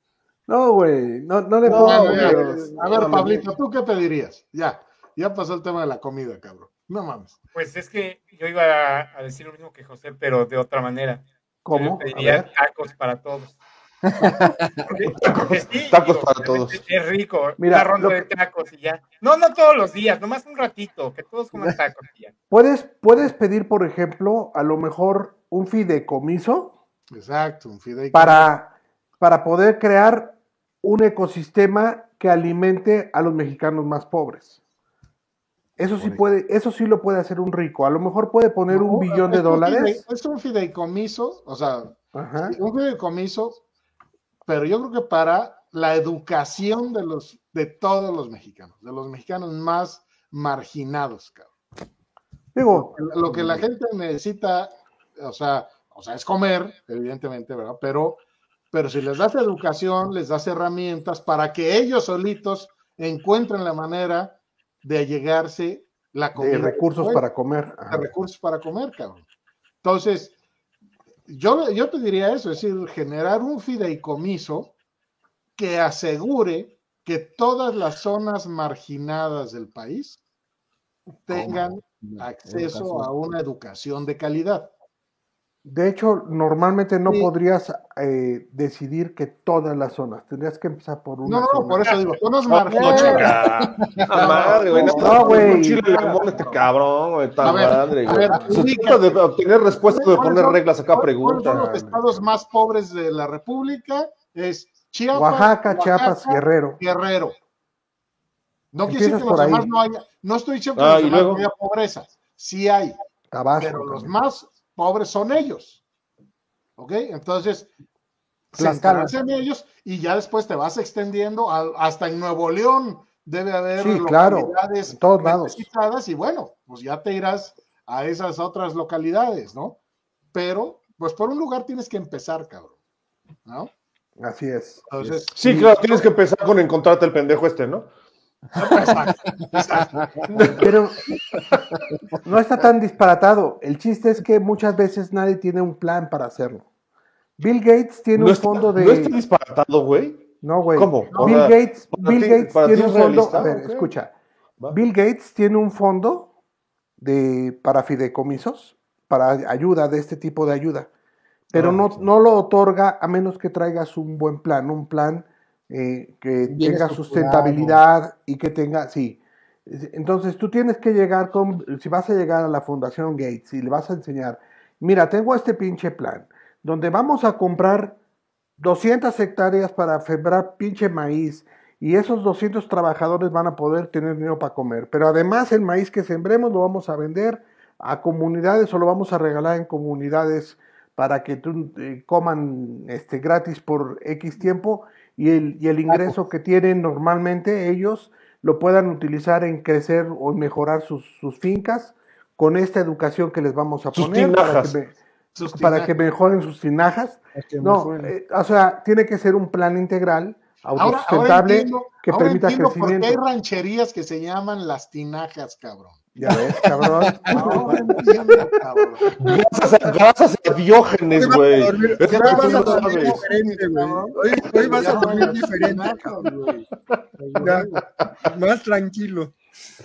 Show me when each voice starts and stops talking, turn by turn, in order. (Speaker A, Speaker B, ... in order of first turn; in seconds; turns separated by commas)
Speaker A: 0.5-2.8, Speaker B: 1.6-3.5, Speaker C: 1.6-7.4, Speaker D: 7.5-13.6, Speaker A: 11.7-12.5, Speaker E: 14.1-15.0, Speaker D: 14.9-22.3, Speaker B: 15.2-16.8, Speaker A: 17.6-18.2, Speaker A: 22.5-26.7, Speaker C: 27.1-28.5, Speaker A: 28.1-34.6, Speaker A: 35.8-40.0, Speaker C: 38.7-43.6, Speaker A: 42.1-42.6, Speaker C: 44.5-51.5, Speaker A: 52.5-53.6, Speaker C: 52.7-58.2, Speaker C: 58.7-67.2, Speaker A: 66.4-68.1, Speaker C: 67.9-69.2, Speaker C: 69.8-70.4, Speaker C: 71.3-74.7, Speaker C: 75.6-80.2, Speaker C: 81.3-84.7, Speaker E: 81.3-83.1, Speaker A: 85.7-92.0, Speaker C: 91.2-93.3, Speaker B: 92.5-101.7, Speaker E: 92.7-95.2, Speaker C: 94.1-96.6, Speaker A: 94.7-96.1, Speaker C: 97.4-99.2, Speaker C: 99.9-107.4, Speaker A: 101.5-102.1, Speaker A: 105.1-106.8, Speaker C: 108.7-113.0, Speaker A: 108.9-109.7, Speaker B: 110.8-111.4, Speaker A: 113.3-114.1, Speaker C: 113.6-115.8, Speaker C: 116.8-117.7, Speaker C: 118.5-129.8, Speaker A: 118.6-119.1, Speaker A: 123.8-125.6, Speaker C: 130.3-132.8, Speaker C: 133.5-133.7, Speaker A: 134.2-135.7, Speaker C: 134.9-136.0, Speaker B: 135.3-137.9, Speaker C: 138.6-140.5, Speaker B: 140.3-140.7, Speaker A: 140.5-141.0, Speaker A: 142.2-146.7, Speaker A: 147.4-149.2, Speaker B: 148.2-153.9, Speaker A: 150.4-154.1, Speaker C: 151.1-151.5, Speaker A: 154.7-156.3, Speaker A: 157.0-160.9, Speaker A: 161.5-178.0, Speaker E: 161.6-162.0, Speaker E: 166.5-167.8, Speaker A: 178.6-213.2, Speaker B: 203.9-204.7, Speaker C: 205.4-206.0, Speaker E: 207.3-208.1, Speaker C: 210.7-216.0, Speaker A: 216.2-218.2, Speaker E: 216.3-218.1, Speaker C: 217.3-219.1, Speaker B: 219.2-223.3, Speaker C: 221.1-227.8, Speaker E: 221.2-226.1, Speaker A: 222.4-222.7, Speaker E: 227.4-229.3